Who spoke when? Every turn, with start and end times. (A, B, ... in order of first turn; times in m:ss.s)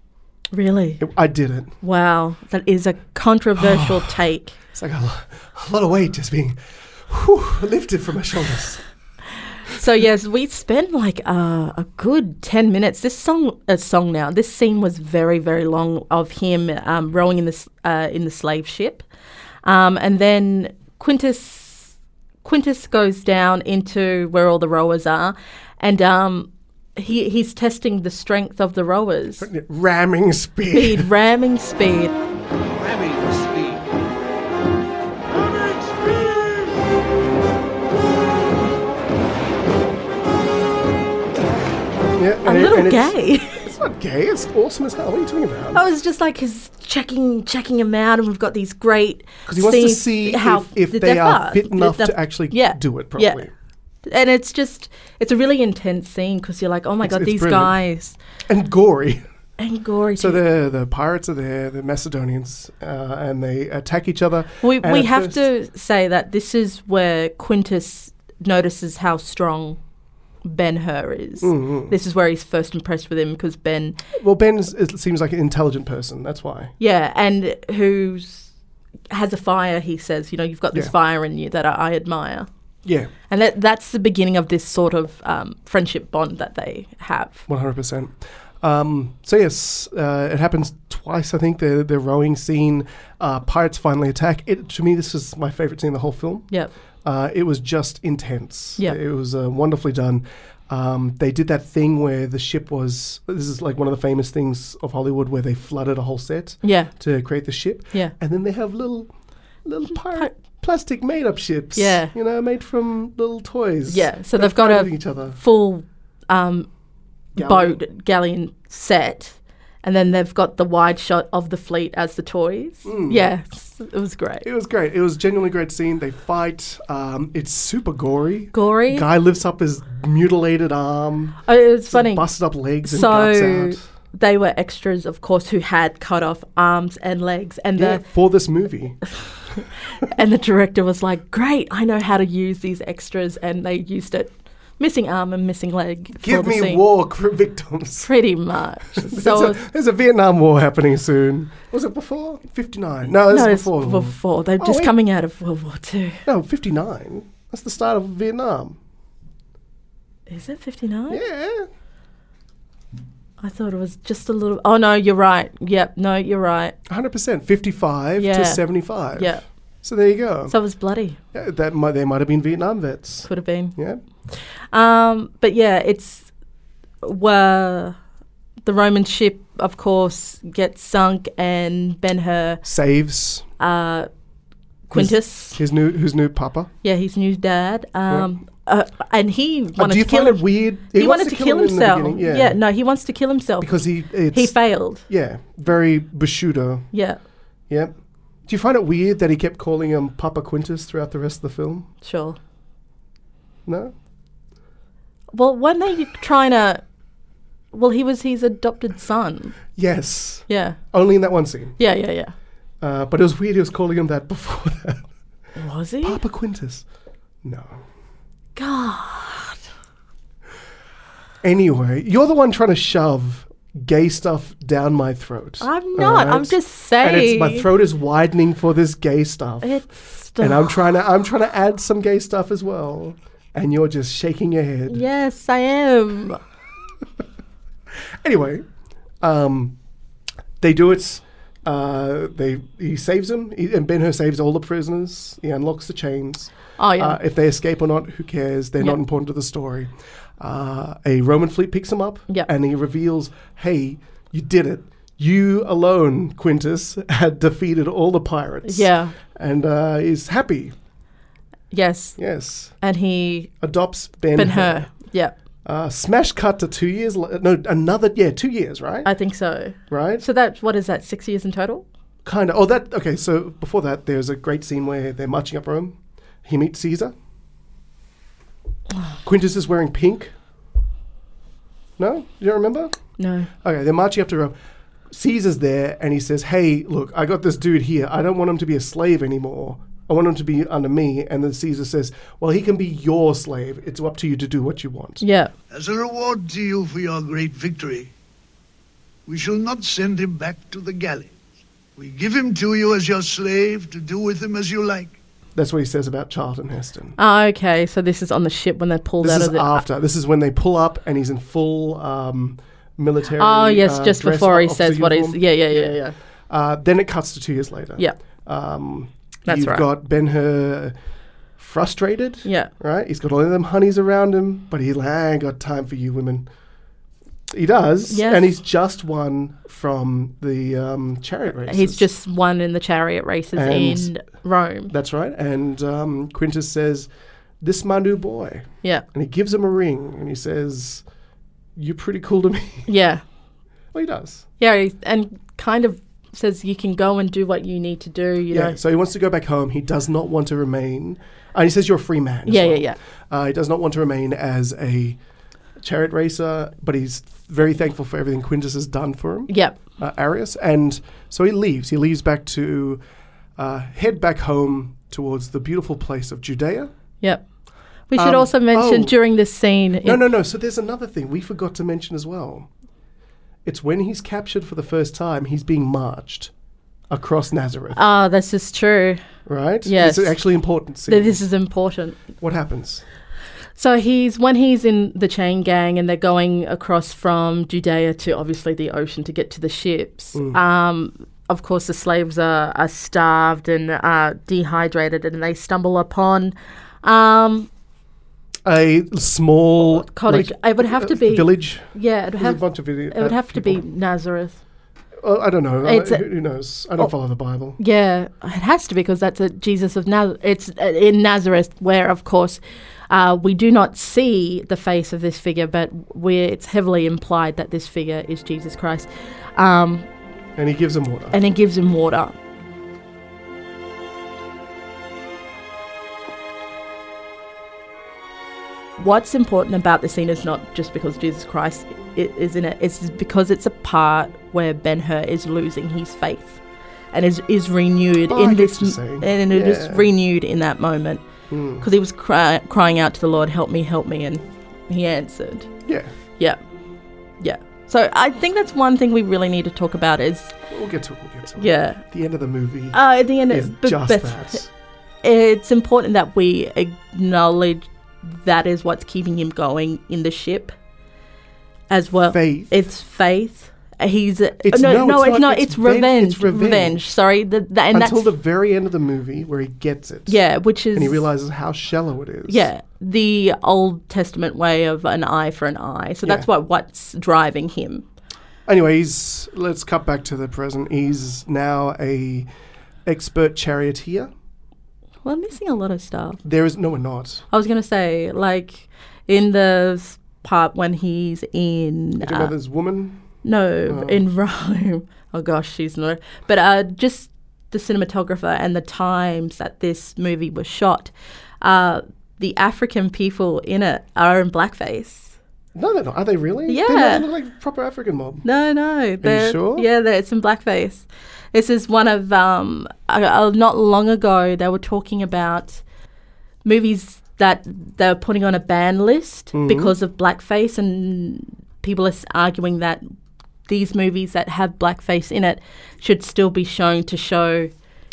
0:00.5-0:01.0 A
0:01.0-0:01.8 B
0:01.8-0:04.6 A
0:03.6-0:04.2 B
0:04.7-0:08.8 B
0:09.7-0:19.0 A
0:19.6-0:29.5 A
0:29.4-0:31.1 B
0:30.7-0:32.1 A
0:42.2-0:45.8 B
0:42.4-0:43.7 A
0:45.7-0:53.4 A
0:49.5-0:53.5 B
0:54.1-0:58.2 A
0:57.0-0:57.8 B
0:58.5-0:59.2 B
0:59.6-1:00.4 A
1:00.2-1:05.5 B
1:04.6-1:09.8 A
1:10.4-1:14.0 A
1:11.4-1:12.0 B
1:14.2-1:16.7 B
1:16.8-1:18.5 A
1:19.1-1:22.5 A
1:22.8-1:23.1 B
1:23.3-1:27.5 A
1:27.5-1:36.5 B
1:37.0-1:49.1 B
1:46.6-1:46.9 A
1:49.6-1:55.4 B
1:51.8-1:52.1 A
1:53.9-1:56.7 A
1:57.4-1:57.8 B
1:57.4-2:04.5 A
2:02.8-2:03.3 B
2:04.4-2:13.8 B
2:08.5-2:09.1 A
2:11.5-2:12.3 A
2:12.8-2:18.0 A
2:17.8-2:19.0 B
2:19.2-2:26.8 A
2:26.2-2:28.1 B
2:28.0-2:29.6 A
2:28.9-2:35.0 B
2:33.3-2:36.2 A
2:36.3-2:38.8 B
2:40.3-2:41.2 A
2:41.1-2:41.7 B
2:43.4-2:46.8 A
2:46.9-2:50.6 B
2:48.2-2:49.4 A
2:50.5-2:51.2 A
2:51.3-2:54.0 B
2:53.2-2:53.8 A
2:54.3-2:56.3 A
2:57.0-2:58.0 A
2:58.6-3:02.6 A
3:02.6-3:03.4 B
3:03.6-3:04.1 A
3:04.9-3:05.6 A
3:04.9-3:06.7 B
3:06.8-3:13.7 A
3:08.1-3:08.4 B
3:09.8-3:12.6 B
3:13.6-3:16.9 B
3:14.3-3:15.0 A
3:16.9-3:17.2 A
3:17.7-3:18.0 B
3:18.5-3:21.9 B
3:22.0-3:22.4 A
3:23.7-3:23.9 B
3:25.3-3:26.8 A
3:27.7-3:29.6 A
3:29.8-3:31.8 B
3:30.5-3:30.8 A
3:31.8-3:32.3 A
3:32.8-3:35.0 B
3:35.6-3:36.2 A
3:36.0-3:36.8 B
3:37.4-3:37.8 B
3:38.6-3:39.6 A
3:41.4-3:55.0 B
3:45.6-3:47.7 A
3:49.6-3:50.8 A
3:54.9-3:56.4 A
3:58.2-3:58.6 B
3:59.2-3:59.8 B
4:00.6-4:20.7 B
4:06.8-4:07.2 A
4:18.6-4:19.2 A
4:21.7-4:22.2 A
4:22.2-4:22.8 B
4:22.8-4:23.5 A
4:23.6-4:24.9 B
4:24.4-4:25.3 A
4:25.6-4:29.1 B
4:29.0-4:31.8 A
4:29.9-4:30.2 B
4:32.2-4:37.1 B
4:39.2-4:40.3 B
4:42.0-4:43.0 B
4:43.2-4:43.5 A
4:43.6-4:44.6 B
4:45.1-4:55.3 B
4:55.2-4:55.5 A
4:55.9-4:58.0 C
4:59.3-5:01.2 C
5:02.0-5:05.0 C
5:05.6-5:07.2 B
5:07.2-5:09.8 A
5:09.2-5:16.0 B
5:13.4-5:16.2 A
5:16.5-5:21.0 B
5:19.5-5:19.9 A
5:21.6-5:26.5 B
5:22.4-5:22.7 A
5:27.5-5:32.0 B
5:28.1-5:28.5 A
5:31.6-5:34.9 A
5:33.5-5:34.1 B
5:34.9-5:37.1 B
5:37.6-5:41.0 B
5:41.8-5:42.9 B
5:42.9-5:43.2 A
5:43.9-5:44.5 B
5:44.6-5:48.8 A
5:48.5-5:55.2 B
5:52.5-5:53.0 A
5:55.8-6:03.0 B
5:59.5-5:59.8 A
6:03.6-6:06.9 B
6:08.1-6:10.2 A
6:08.2-6:09.2 B
6:10.0-6:12.7 B
6:13.6-6:16.5 B
6:17.1-6:18.0 B
6:17.9-6:19.2 A
6:19.5-6:21.4 B
6:19.8-6:20.4 A
6:21.1-6:22.2 A
6:22.4-6:23.0 B
6:23.8-6:37.7 A
6:30.3-6:30.6 B
6:38.6-6:43.8 B
6:39.8-6:44.6 A
6:45.2-6:47.8 B
6:45.8-6:46.3 A
6:47.8-7:00.1 A
7:00.6-7:01.4 B
7:01.3-7:02.4 A
7:09.0-7:16.6 A
7:17.1-7:21.2 A
7:18.3-7:20.1 B
7:21.5-7:21.9 B
7:21.8-7:25.7 A
7:25.9-7:26.1 B
7:27.4-7:30.5 A
7:30.7-7:34.7 B
7:31.6-7:32.0 A
7:32.9-7:34.6 A
7:35.2-7:40.7 A
7:41.9-7:48.3 A
7:42.3-7:42.8 B
7:44.6-7:47.0 B
7:47.9-7:50.4 B
7:50.3-7:51.3 A
7:50.9-7:52.7 B
7:52.5-7:58.0 A
7:56.2-7:56.5 B
7:58.7-8:02.5 B
8:03.1-8:04.3 B
8:05.2-8:06.4 A
8:06.4-8:07.4 B
8:07.5-8:12.5 A
8:12.2-8:13.2 B
8:13.4-8:25.4 A
8:13.9-8:14.2 B
8:25.8-8:28.4 B
8:26.7-8:27.3 A
8:28.4-8:35.8 A
8:29.2-8:29.9 B
8:36.6-8:43.1 A
8:39.5-8:40.0 B
8:43.7-8:47.7 A